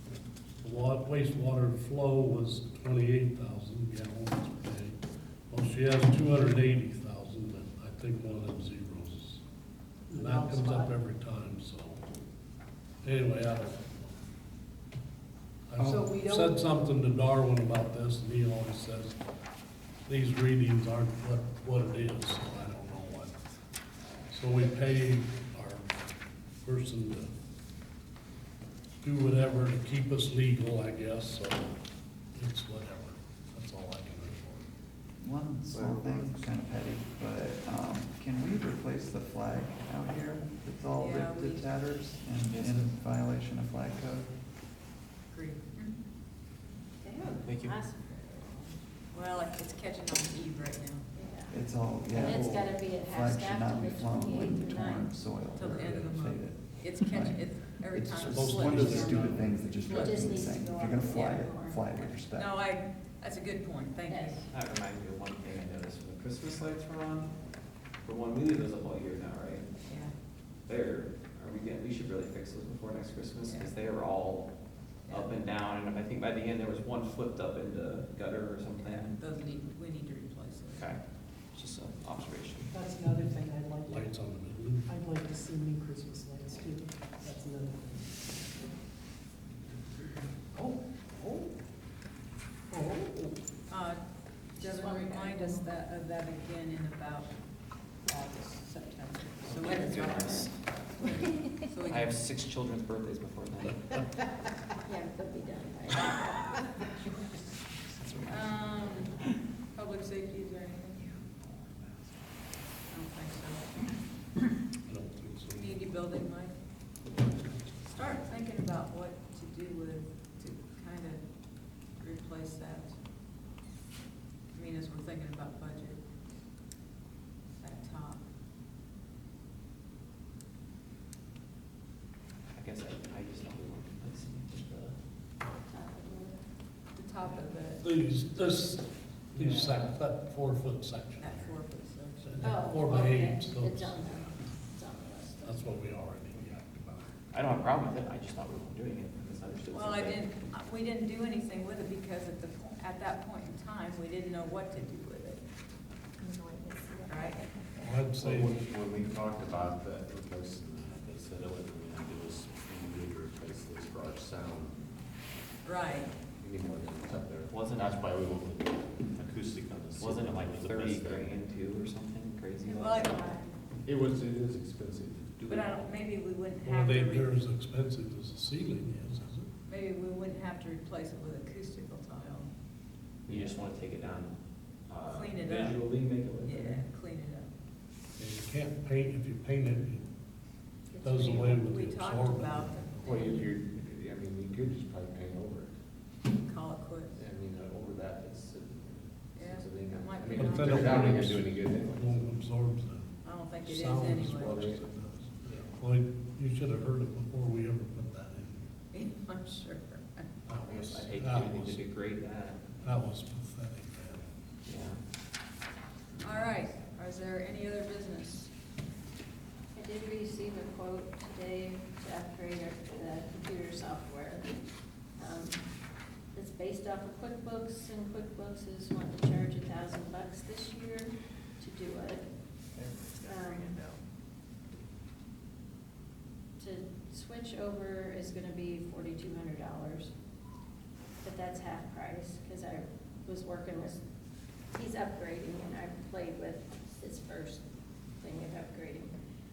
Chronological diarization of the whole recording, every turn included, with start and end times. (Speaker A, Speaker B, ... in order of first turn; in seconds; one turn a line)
Speaker A: 0.6-5.0
Speaker A: 5.5-9.4
Speaker A: 10.1-12.1
Speaker B: 10.1-10.9
Speaker A: 13.0-14.2
Speaker A: 15.7-19.2
Speaker B: 15.8-16.7
Speaker A: 20.1-23.4
Speaker A: 24.3-26.0
Speaker A: 26.6-27.3
Speaker A: 29.0-31.8
Speaker A: 32.4-34.7
Speaker C: 35.2-44.3
Speaker D: 35.7-36.4
Speaker E: 41.0-41.7
Speaker F: 42.5-42.9
Speaker E: 45.3-45.9
Speaker G: 47.0-48.8
Speaker F: 47.4-47.8
Speaker E: 49.1-51.1
Speaker G: 51.1-51.6
Speaker C: 51.5-62.6
Speaker G: 52.1-55.1
Speaker E: 55.5-61.5
Speaker A: 58.3-59.6
Speaker G: 59.9-61.8
Speaker E: 62.3-64.4
Speaker G: 64.1-64.5
Speaker F: 64.5-67.3
Speaker F: 68.0-69.7
Speaker E: 69.8-70.1
Speaker F: 70.7-74.5
Speaker E: 73.4-73.8
Speaker F: 75.1-79.2
Speaker E: 75.1-75.3
Speaker E: 78.8-80.9
Speaker F: 80.8-81.0
Speaker F: 81.5-82.7
Speaker B: 82.7-84.1
Speaker A: 83.8-84.9
Speaker B: 84.9-88.2
Speaker B: 90.5-91.5
Speaker B: 92.7-93.3
Speaker E: 93.7-94.0
Speaker E: 94.5-97.3
Speaker G: 94.6-95.6
Speaker E: 98.1-102.2
Speaker F: 99.5-100.6
Speaker F: 101.8-104.0
Speaker G: 104.9-106.5
Speaker F: 107.8-108.5
Speaker E: 108.3-109.2
Speaker E: 109.7-111.1
Speaker F: 111.2-112.3
Speaker E: 112.9-113.9
Speaker A: 114.8-115.9
Speaker E: 115.5-116.5
Speaker A: 117.3-118.2
Speaker E: 117.9-121.2
Speaker E: 122.0-123.0
Speaker E: 124.5-126.0
Speaker E: 127.6-128.2
Speaker F: 132.5-134.9
Speaker G: 135.7-136.4
Speaker E: 137.0-137.9
Speaker A: 137.8-141.6
Speaker F: 139.4-139.9
Speaker E: 141.2-142.5
Speaker A: 142.2-144.5
Speaker G: 142.4-145.6
Speaker A: 145.4-147.1
Speaker F: 147.3-150.2
Speaker E: 149.7-155.4
Speaker G: 156.2-157.7
Speaker E: 157.1-157.4
Speaker A: 157.8-158.5
Speaker D: 158.1-165.0
Speaker E: 165.6-166.1
Speaker D: 166.3-171.4
Speaker F: 167.5-168.1
Speaker F: 169.9-173.3
Speaker E: 172.7-173.3
Speaker G: 173.1-173.5
Speaker D: 173.8-175.9
Speaker E: 175.5-177.3
Speaker A: 176.6-179.5
Speaker E: 179.7-182.5
Speaker F: 183.3-184.3
Speaker F: 184.9-186.8
Speaker E: 185.1-185.8
Speaker E: 186.4-187.5
Speaker A: 188.2-190.0
Speaker G: 190.9-191.5
Speaker A: 191.0-192.9
Speaker E: 191.3-193.5
Speaker D: 193.0-195.7
Speaker E: 196.4-197.2
Speaker D: 197.2-202.3
Speaker E: 199.3-201.3
Speaker A: 200.4-203.1
Speaker E: 203.2-204.6
Speaker A: 203.6-208.7
Speaker D: 204.3-204.9
Speaker E: 208.9-210.3
Speaker A: 210.5-211.8
Speaker F: 210.7-212.7
Speaker A: 212.8-214.3
Speaker F: 214.7-215.0
Speaker E: 216.2-218.5
Speaker G: 219.8-224.5
Speaker G: 225.2-225.6
Speaker G: 226.3-232.2
Speaker F: 232.7-234.0
Speaker G: 233.3-233.8
Speaker G: 236.6-240.1
Speaker G: 241.2-244.0
Speaker G: 244.7-247.6
Speaker G: 248.2-249.1